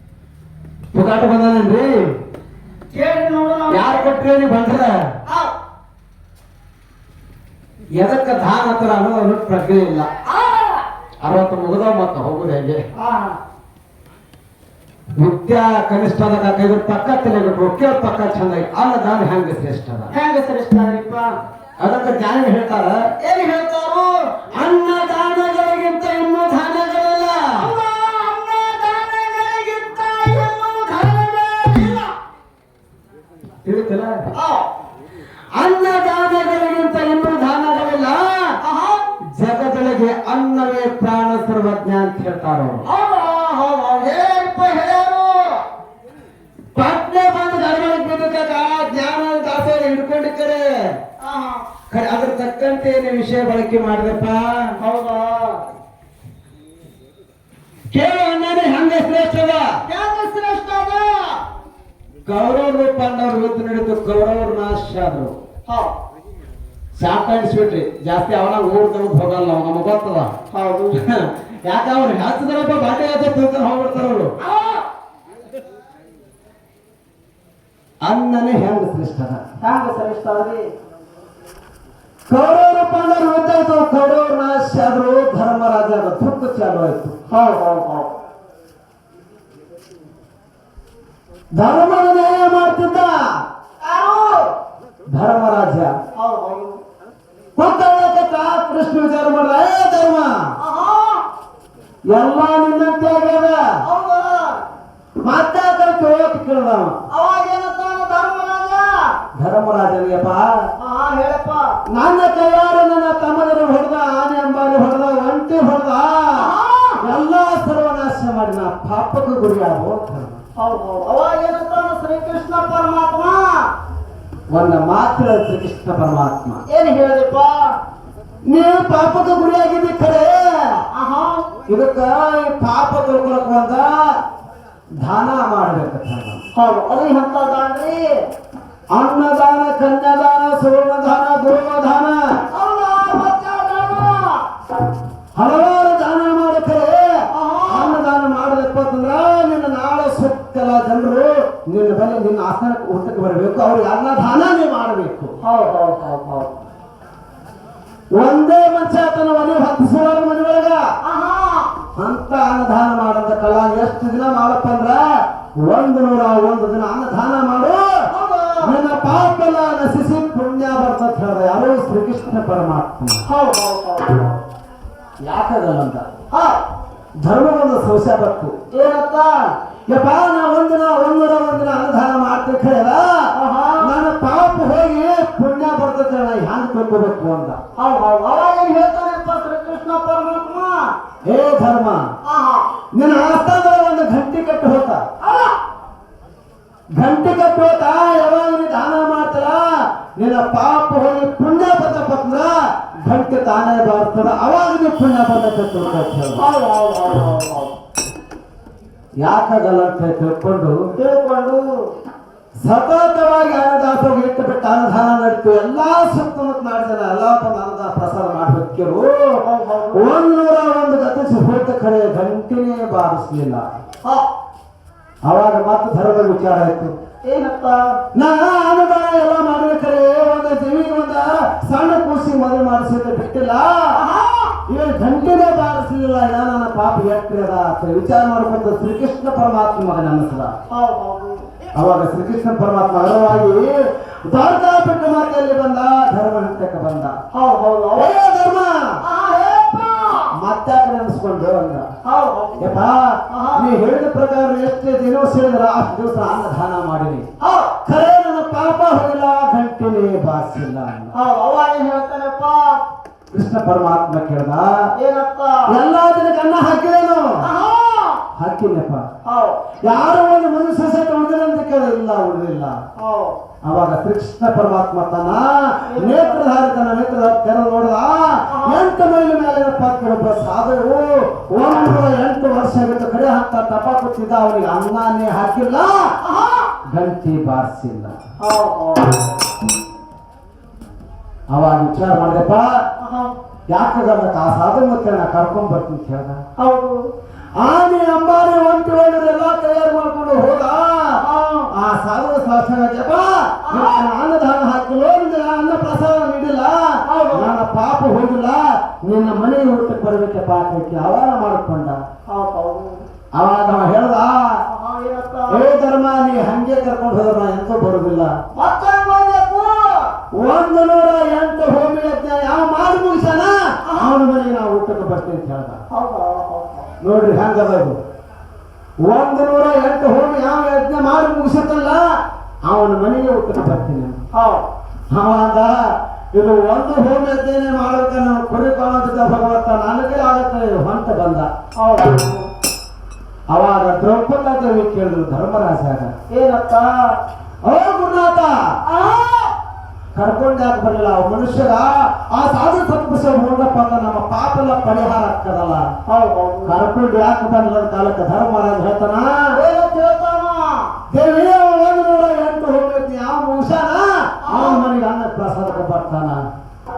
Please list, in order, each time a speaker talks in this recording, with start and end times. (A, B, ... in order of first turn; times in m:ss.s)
0:00.9-0:02.1 A
0:02.9-0:04.1 B
0:03.7-0:05.1 A
0:05.3-0:05.5 B
0:07.9-0:10.1 A
0:11.2-0:12.8 A
0:12.9-0:13.4 B
0:15.2-0:20.1 A
0:20.1-0:21.4 B
0:21.8-0:23.1 A
0:23.2-0:24.3 B
0:24.5-0:27.7 A
0:27.6-0:32.1 B
0:33.6-0:34.3 A
0:34.3-0:34.7 B
0:35.6-0:38.5 A
0:38.6-0:39.1 B
0:39.3-0:42.8 A
0:42.8-0:45.6 B
0:46.7-0:51.0 A
0:51.2-0:51.6 B
0:51.9-0:54.8 A
0:54.8-0:55.6 B
0:57.9-0:59.7 A
0:59.9-1:01.4 B
1:02.2-1:05.3 A
1:05.7-1:06.0 B
1:07.0-1:10.3 A
1:10.5-1:11.0 B
1:10.9-1:14.3 A
1:14.4-1:14.8 B
1:18.0-1:19.4 A
1:19.6-1:20.7 B
1:22.3-1:27.2 A
1:27.3-1:28.1 B
1:31.6-1:33.2 A
1:33.8-1:34.6 B
1:35.1-1:35.9 A
1:36.1-1:36.8 B
1:37.6-1:40.3 A
1:40.6-1:41.3 B
1:42.1-1:43.6 A
1:43.8-1:44.6 B
1:45.2-1:47.0 A
1:47.1-1:49.1 B
1:49.4-1:50.5 A
1:50.8-1:51.8 B
1:51.9-1:56.5 A
1:56.3-1:57.0 B
1:57.0-2:00.4 A
2:00.6-2:03.7 B
2:04.5-2:06.6 A
2:06.7-2:07.8 B
2:08.4-2:10.8 A
2:10.9-2:11.5 B
2:11.7-2:13.9 A
2:15.0-2:16.4 A
2:16.5-2:18.1 B
2:18.9-2:22.2 A
2:22.5-2:24.5 B
2:25.3-2:27.1 A
2:27.3-2:28.0 B
2:27.7-2:35.3 A
2:35.4-2:36.6 B
2:38.1-2:40.8 A
2:41.0-2:41.7 B
2:42.0-2:45.0 A
2:45.6-2:47.8 A
2:48.1-2:48.7 B
2:48.6-2:53.2 A
2:53.2-2:54.4 B
2:55.2-2:56.0 A
2:56.3-2:56.6 B
2:57.2-2:58.5 A
2:58.7-2:59.5 B
2:59.9-3:03.3 A
3:03.3-3:03.9 B
3:03.8-3:07.6 A
3:07.8-3:10.9 B
3:11.2-3:12.0 A
3:12.2-3:12.7 B
3:12.9-3:15.0 A
3:15.2-3:15.6 B
3:16.9-3:19.6 A
3:20.2-3:26.4 A
3:26.4-3:27.7 B
3:29.2-3:30.8 A
3:31.0-3:31.7 B
3:32.6-3:39.3 A
3:39.4-3:40.0 B
3:39.9-3:43.6 A
3:45.2-3:46.9 A
3:47.2-3:47.8 B
3:48.2-3:53.9 A
3:53.9-3:54.6 B
3:54.7-4:00.5 A
4:00.7-4:01.5 B
4:01.8-4:03.7 A
4:04.2-4:07.2 A
4:07.3-4:08.1 B
4:08.0-4:08.8 A
4:09.0-4:10.3 B
4:10.3-4:11.9 A
4:12.0-4:13.7 B
4:12.6-4:17.2 A
4:17.4-4:17.7 B
4:17.8-4:21.1 A
4:21.1-4:22.8 B
4:23.3-4:24.7 A
4:25.0-4:25.6 B
4:25.7-4:27.4 A
4:27.4-4:28.2 B
4:28.4-4:29.0 A
4:29.2-4:29.6 B
4:29.8-4:32.8 A
4:33.0-4:33.4 B
4:33.6-4:46.1 A
4:35.9-4:36.4 B
4:38.5-4:38.8 B
4:46.2-4:46.7 B
4:46.9-4:48.2 A
4:48.4-4:49.4 B
4:51.5-4:52.7 A
4:53.0-4:53.3 B
4:53.7-4:56.4 A
4:56.6-4:57.1 B
4:57.6-5:01.2 A
5:01.2-5:01.7 B
5:01.7-5:12.0 A
5:03.6-5:04.0 B
5:07.1-5:07.5 B
5:12.3-5:13.0 B
5:13.4-5:14.4 A
5:14.7-5:15.6 B
5:15.5-5:18.3 A
5:18.5-5:20.1 B
5:20.4-5:25.8 A
5:25.9-5:26.9 B
5:27.0-5:28.0 A
5:29.0-5:32.0 A
5:32.6-5:34.2 A
5:34.3-5:34.6 B
5:35.1-5:35.8 A
5:36.3-5:41.5 A
5:41.8-5:42.5 B
5:43.5-5:46.1 A
5:46.3-5:47.2 B
5:47.6-5:48.5 A
5:48.8-5:49.6 B
5:50.1-5:55.8 A
5:56.1-5:56.8 B
5:56.6-5:59.3 A
5:59.5-6:00.8 B
6:01.1-6:06.4 A
6:04.5-6:04.8 B